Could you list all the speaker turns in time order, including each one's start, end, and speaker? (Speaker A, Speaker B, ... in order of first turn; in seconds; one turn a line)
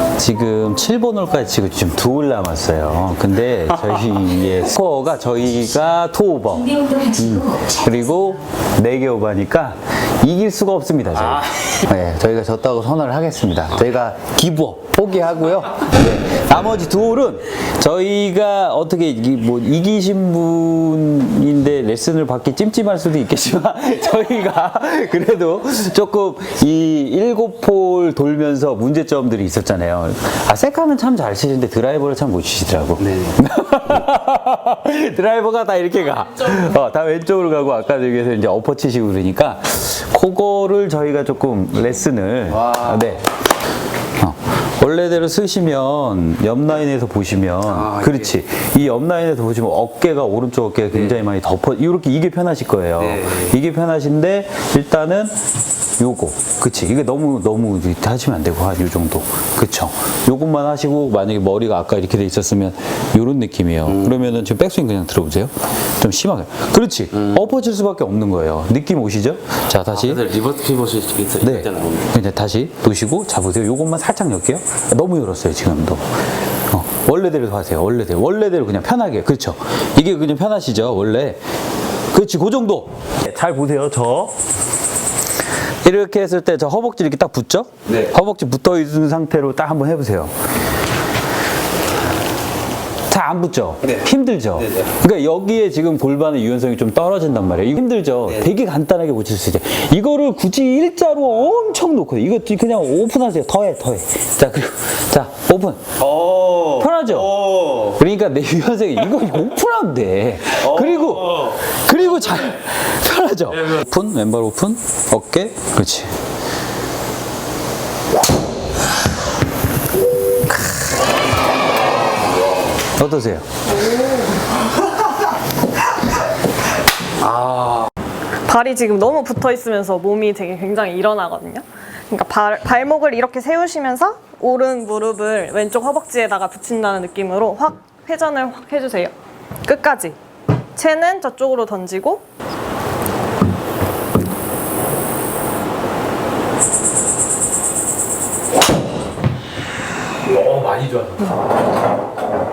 Speaker A: 0.2-43.2
Speaker B: 11.2-11.4
Speaker B: 33.0-33.4
Speaker B: 42.5-43.2
Speaker A: 44.2-55.4
Speaker B: 47.7-48.4
Speaker B: 50.9-51.2
Speaker B: 53.0-53.5
Speaker A: 56.0-70.2
Speaker B: 63.9-64.2
Speaker B: 69.9-72.1
Speaker A: 71.4-76.0
Speaker A: 76.7-81.4
Speaker A: 82.1-84.3
Speaker A: 85.8-90.3
Speaker B: 87.9-88.1
Speaker A: 93.1-106.0
Speaker B: 94.6-94.8
Speaker B: 106.0-108.0
Speaker A: 106.8-107.4
Speaker A: 108.0-116.1
Speaker B: 110.6-111.6
Speaker A: 123.0-123.5
Speaker B: 127.2-127.9
Speaker C: 128.5-139.1
Speaker C: 139.6-140.2
Speaker C: 140.8-142.2
Speaker A: 150.3-151.4